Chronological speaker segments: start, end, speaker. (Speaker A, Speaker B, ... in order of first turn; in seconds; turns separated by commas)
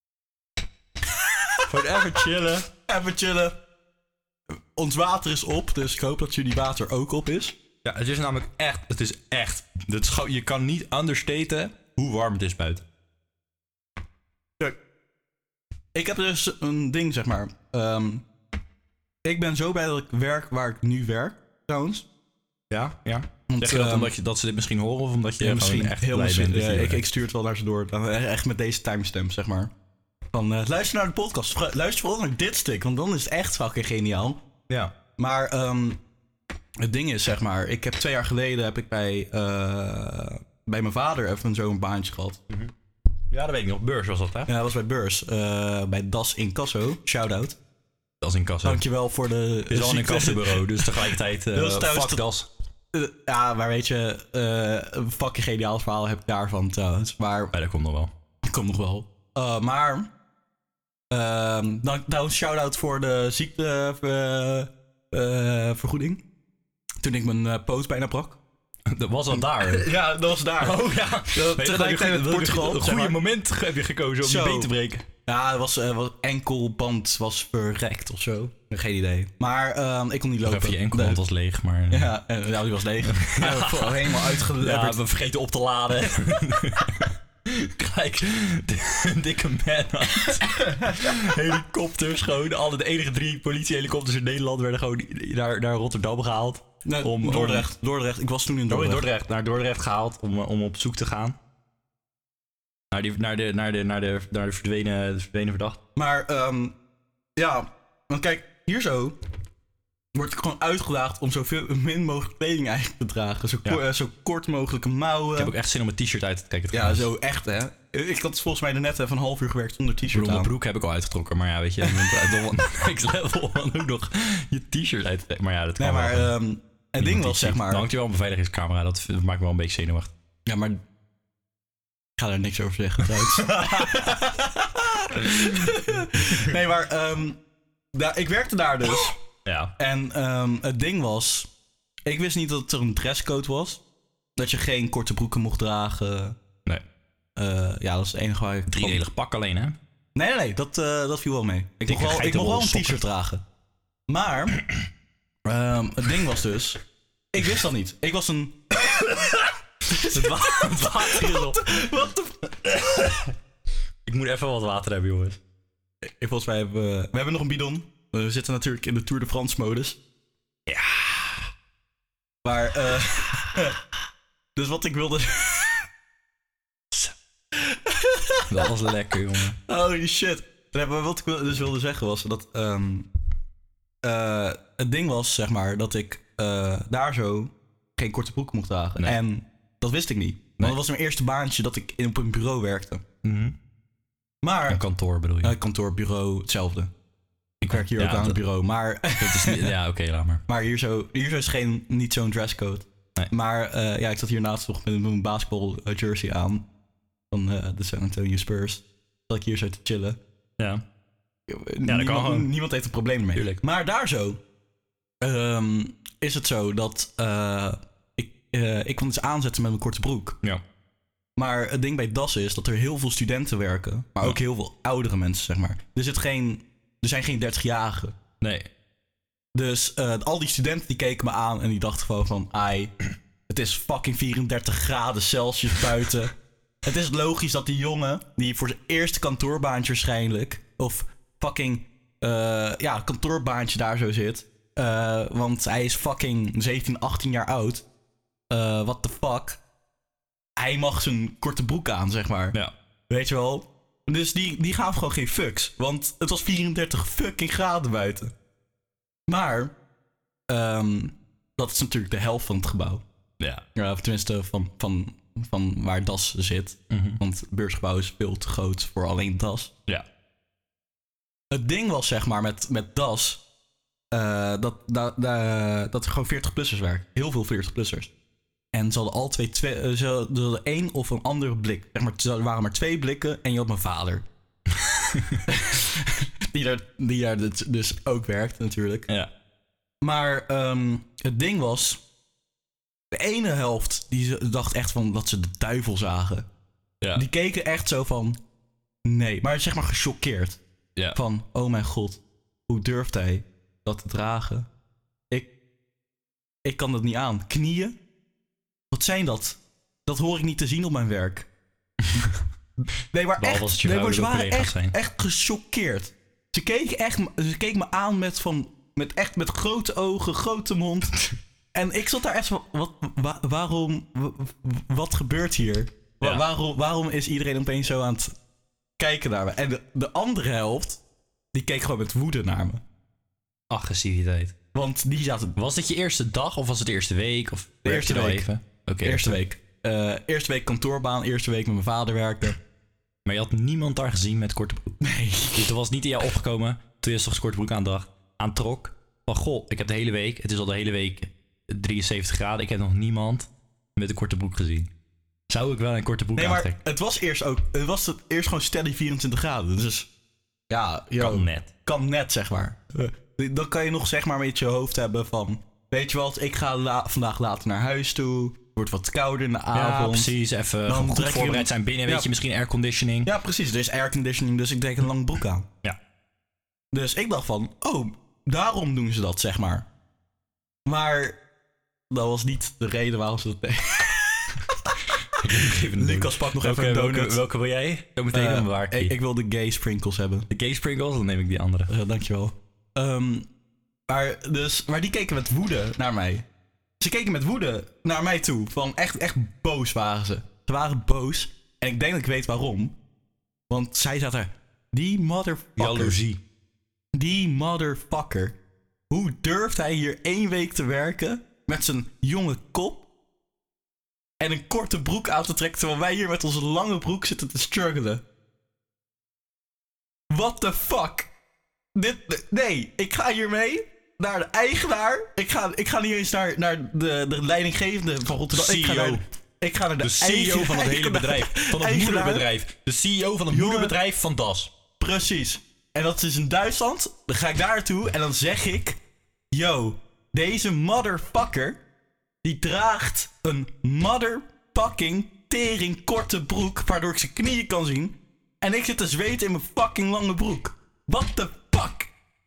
Speaker A: 1.7-2.7, Speaker B: 2.9-3.6, Speaker B: 4.5-7.5, Speaker A: 7.8-12.8, Speaker B: 15.9-18.2, Speaker B: 19.2-22.0, Speaker A: 22.7-27.0, Speaker B: 23.5-24.1, Speaker B: 25.4-29.7, Speaker B: 30.3-34.4, Speaker B: 35.2-36.0, Speaker B: 36.8-42.4, Speaker A: 43.3-44.5, Speaker B: 44.5-47.6, Speaker A: 48.2-48.8, Speaker B: 48.6-52.2, Speaker A: 49.7-52.5, Speaker B: 52.9-57.5, Speaker A: 57.5-58.1, Speaker B: 58.4-60.1, Speaker B: 61.1-66.2, Speaker B: 67.0-68.4, Speaker A: 68.9-69.9, Speaker B: 69.5-73.2, Speaker A: 70.6-75.0, Speaker B: 74.2-74.7, Speaker B: 75.2-81.2, Speaker A: 80.4-82.1, Speaker B: 81.9-85.0, Speaker A: 83.0-97.7, Speaker B: 90.6-91.1, Speaker B: 96.8-99.0, Speaker A: 98.7-101.4, Speaker A: 102.9-105.8, Speaker B: 106.0-106.7, Speaker B: 107.4-109.2, Speaker B: 110.1-115.5, Speaker A: 115.3-117.0, Speaker B: 116.7-120.5, Speaker A: 120.1-126.3, Speaker B: 121.8-122.2, Speaker B: 125.8-127.8, Speaker A: 127.0-130.1, Speaker B: 130.4-130.8, Speaker B: 132.2-137.4, Speaker A: 133.1-133.8, Speaker A: 135.3-135.7, Speaker B: 137.9-139.2, Speaker A: 139.4-139.7, Speaker B: 139.8-141.5, Speaker B: 142.1-143.8, Speaker B: 144.4-146.4, Speaker B: 147.4-149.0, Speaker A: 148.7-149.8, Speaker B: 150.1-153.4, Speaker A: 151.9-153.0, Speaker B: 154.1-154.6, Speaker B: 155.4-156.8, Speaker B: 157.3-159.2, Speaker A: 159.9-161.7, Speaker B: 159.9-162.8, Speaker A: 162.7-163.3, Speaker A: 164.1-165.4, Speaker B: 166.0-170.0, Speaker A: 170.7-171.5, Speaker B: 172.4-173.8, Speaker B: 174.6-175.9, Speaker B: 177.5-178.5, Speaker A: 178.5-179.6, Speaker B: 179.7-183.1, Speaker B: 184.0-193.0, Speaker A: 193.2-193.6, Speaker B: 194.4-194.8, Speaker A: 194.7-195.5, Speaker B: 195.4-196.9, Speaker A: 197.6-198.4, Speaker B: 197.7-199.7, Speaker A: 199.2-200.4, Speaker B: 200.5-206.6, Speaker B: 207.3-210.2, Speaker B: 211.5-214.4, Speaker A: 211.8-212.5, Speaker A: 213.3-213.6, Speaker B: 215.2-220.4, Speaker B: 221.4-228.2, Speaker A: 228.4-228.7, Speaker B: 229.5-232.9, Speaker B: 233.5-236.3, Speaker B: 236.8-247.8, Speaker B: 248.5-249.6, Speaker B: 250.6-252.6, Speaker B: 253.1-258.3, Speaker B: 259.3-259.7, Speaker B: 260.5-263.0, Speaker B: 263.7-269.7, Speaker A: 266.9-267.2, Speaker B: 271.5-273.4, Speaker B: 274.1-278.1, Speaker B: 278.7-284.2, Speaker A: 284.8-285.4, Speaker B: 285.5-289.1, Speaker B: 290.0-292.0, Speaker B: 293.1-296.5, Speaker B: 297.1-298.4, Speaker B: 299.0-300.6, Speaker B: 301.1-304.7, Speaker B: 306.6-307.9, Speaker B: 308.9-311.5, Speaker B: 312.8-328.3, Speaker A: 313.4-314.9, Speaker B: 329.0-331.0, Speaker B: 331.5-332.8, Speaker A: 333.7-334.5, Speaker B: 334.7-335.6, Speaker A: 335.6-339.4, Speaker B: 337.8-338.5, Speaker B: 339.0-342.6, Speaker A: 343.2-345.0, Speaker B: 345.0-345.7, Speaker A: 345.6-354.9, Speaker A: 355.5-356.8, Speaker B: 356.3-360.1, Speaker B: 360.7-370.3, Speaker A: 361.2-361.7, Speaker A: 369.7-373.3, Speaker B: 370.9-372.3, Speaker B: 373.2-375.7, Speaker B: 376.9-379.8, Speaker B: 380.9-381.4, Speaker B: 382.1-387.4, Speaker A: 385.4-389.1, Speaker B: 388.3-390.5, Speaker A: 390.5-391.9, Speaker B: 391.9-393.4, Speaker B: 394.1-396.4, Speaker B: 397.0-402.9, Speaker B: 403.7-406.2, Speaker A: 405.8-406.4, Speaker B: 407.1-408.5, Speaker B: 409.1-413.0, Speaker B: 414.4-418.2, Speaker B: 420.3-421.3, Speaker B: 421.9-432.5, Speaker A: 428.5-429.2, Speaker A: 430.0-434.7, Speaker B: 433.5-433.9, Speaker B: 435.0-439.0, Speaker B: 439.5-441.8, Speaker B: 442.4-452.1